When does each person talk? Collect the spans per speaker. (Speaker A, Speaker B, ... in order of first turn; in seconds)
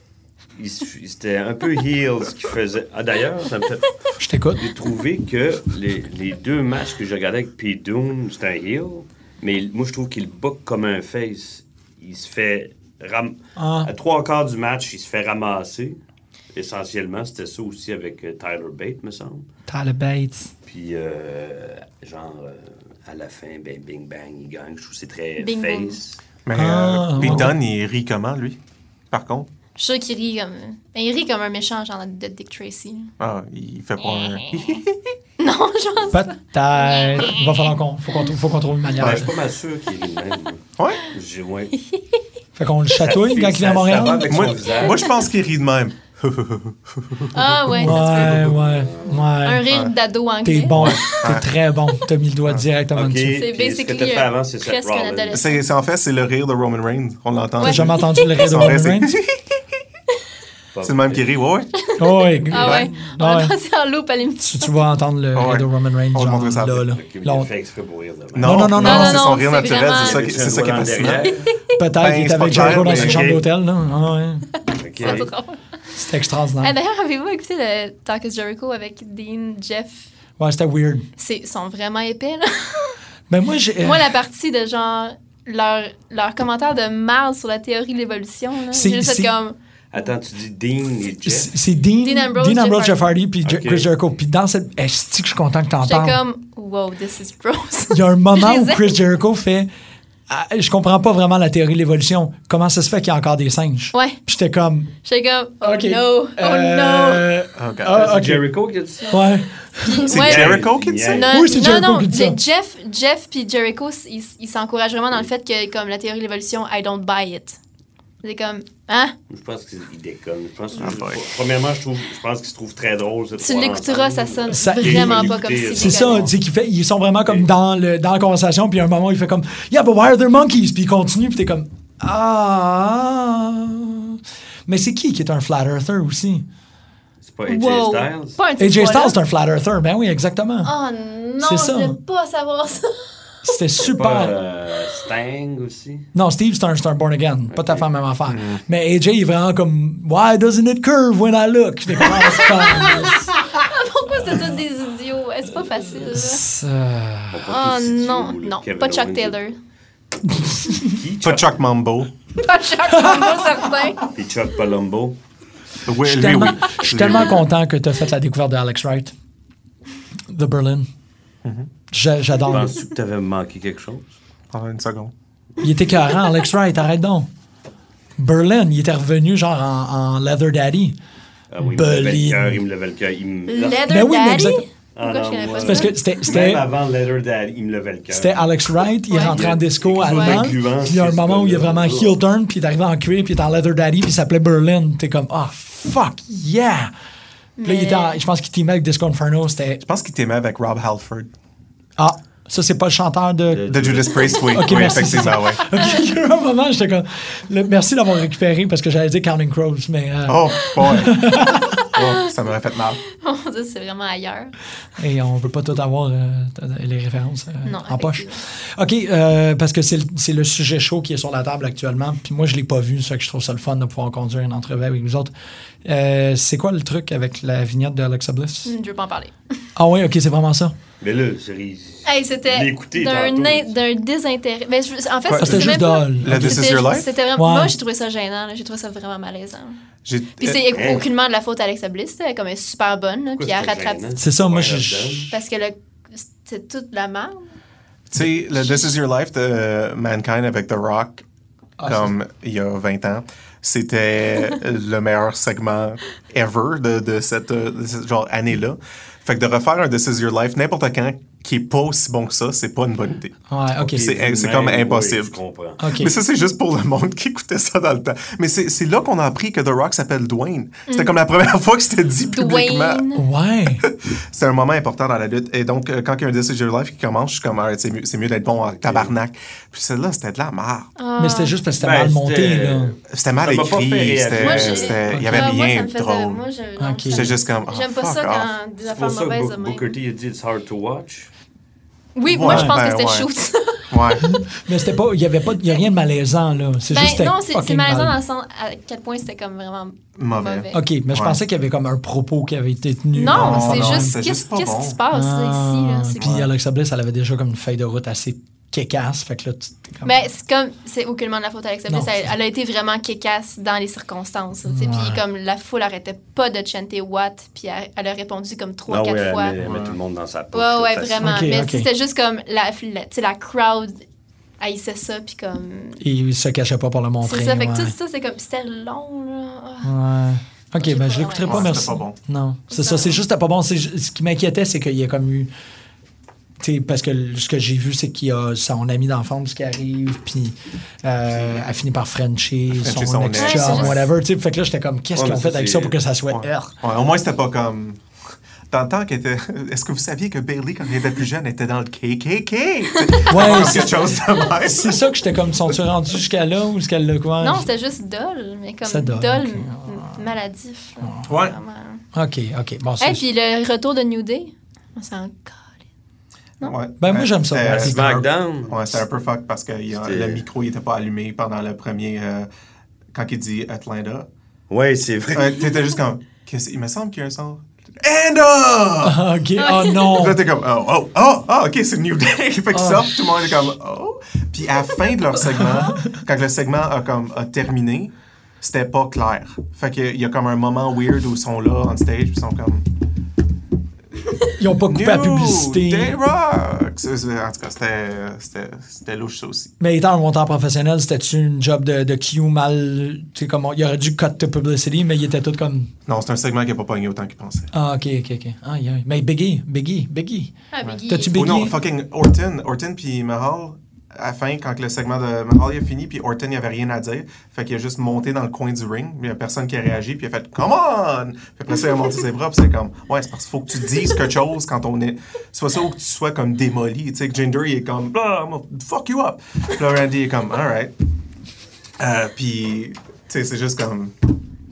Speaker A: 0.6-4.0, 4.6-16.0, 16.5-19.4, 20.7-26.2, 39.0-41.8, 43.0-45.1, 47.8-49.4, 52.9-55.4, 60.7-61.3, 67.0-68.6, 69.9-71.5, 72.5-73.5, 74.7-75.3, 89.9-91.5, 93.4-93.9, 107.9-109.2, 110.1-111.3, 119.3-126.3, 137.2-138.4, 143.8-146.1, 147.5-147.9, 157.3-159.4, 160.7-161.5, 164.1-165.2, 172.5-174.1, 181.5-183.9, 184.9-188.6, 189.1-192.2, 203.5-204.9, 231.0-233.8, 240.7-241.1, 243.4-245.3, 263.8-265.9, 278.7-279.1, 281.8-285.1, 288.8-291.3, 318.9-321.5, 345.2-345.9, 367.7-369.0, 369.9-370.4, 374.7-375.8
Speaker B: 4.2-4.6, 13.6-13.9, 19.7-20.5, 26.5-27.6, 36.1-39.3, 42.5-44.5, 47.7-49.7, 50.4-53.4, 57.6-59.1, 62.0-63.5, 64.4-67.5, 68.4-69.3, 71.8-74.5, 76.0-76.7, 80.4-81.1, 83.3-84.1, 88.7-89.3, 91.2-96.2, 97.9-99.7, 100.3-104.9, 105.6-108.5, 109.1-110.1, 111.3-112.4, 124.5-136.4, 138.6-140.7, 141.4-142.0, 143.4-144.4, 146.1-153.3, 156.0-157.4, 160.3-160.9, 163.0-163.3, 166.0-169.1, 170.3-170.9, 171.9-172.8, 175.6-177.3, 178.2-181.0, 181.6-182.6, 183.9-184.6, 185.6-186.7, 188.1-196.9, 197.6-199.8, 202.0-203.7, 204.3-211.8, 215.0-225.3, 225.8-228.7, 229.8-230.7, 235.4-236.7, 237.4-237.7, 244.2-245.3, 251.8-252.1, 263.5-264.1, 265.8-266.1, 273.1-273.9, 281.2-282.9, 285.1-285.5, 286.8-287.3, 292.4-292.8, 294.2-298.2, 300.7-304.1, 305.1-310.1, 311.9-312.1, 314.7-315.2, 321.2-321.9, 326.0-327.9, 329.8-335.5, 336.6-346.7, 353.3-357.7, 358.9-360.2, 361.0-361.3, 362.1-363.2, 367.0-368.1, 379.0-380.4, 382.7-383.3, 394.6-396.2, 399.8-405.9, 407.7-410.5, 411.1-411.8
Speaker C: 25.4-26.0, 29.8-33.1, 34.1-34.6, 35.4-37.6, 47.3-48.5, 49.4-51.2, 53.3-55.6, 57.6-58.4, 62.0-64.7, 68.8-70.2, 71.2-71.8, 74.6-75.6, 76.6-80.1, 81.2-83.0, 83.8-89.5, 92.0-93.1, 95.8-98.9, 103.9-104.2, 105.0-107.3, 109.8-117.6, 118.2-119.1, 123.4-126.3, 137.5-139.2, 140.6-143.2, 152.2-156.4, 157.4-159.6, 162.4-164.1, 183.5-186.0, 189.1-189.4, 190.0-190.5, 197.6-198.2, 213.1-214.5, 217.6-218.4, 228.7-229.3, 232.1-239.8, 240.4-244.1, 245.3-247.6, 248.6-248.9, 272.3-273.2, 281.0-281.6, 284.4-290.0, 292.1-294.2, 296.9-300.8, 303.1-306.3, 310.0-319.6, 320.5-324.0, 324.6-326.0, 327.2-329.9, 330.8-331.8, 332.7-333.2, 343.4-344.0, 357.4-362.0, 363.0-365.7, 379.6-380.2, 410.7-411.4
Speaker D: 26.4-28.6, 29.1-29.5, 33.2-35.0, 39.0-39.3, 40.8-41.0, 44.2-47.3, 49.7-49.9, 50.7-51.5, 55.3-59.6, 60.8-61.8, 62.5-62.9, 65.3-67.0, 68.3-73.4, 107.5-108.1, 110.1-111.3, 120.8-121.2, 148.3-148.6, 161.2-162.1, 165.8-167.4, 174.5-175.1, 199.8-201.3, 203.7-205.6, 210.3-211.3, 211.9-213.0, 235.3-237.1, 240.1-240.8, 248.1-251.2, 251.8-265.4, 265.9-273.1, 273.8-280.9, 283.1-286.4, 287.1-288.5, 292.3-293.3, 293.9-294.2, 300.2-301.4, 303.3-305.0, 306.2-306.5, 319.6-320.0, 331.4-332.2, 341.3-341.7, 342.7-344.1, 346.3-348.0, 348.7-355.1, 361.3-361.6, 366.6-372.5, 373.1-374.3, 375.3-379.2, 380.1-392.9, 394.9-399.7, 406.1-407.7, 410.8-430.9, 432.0-434.4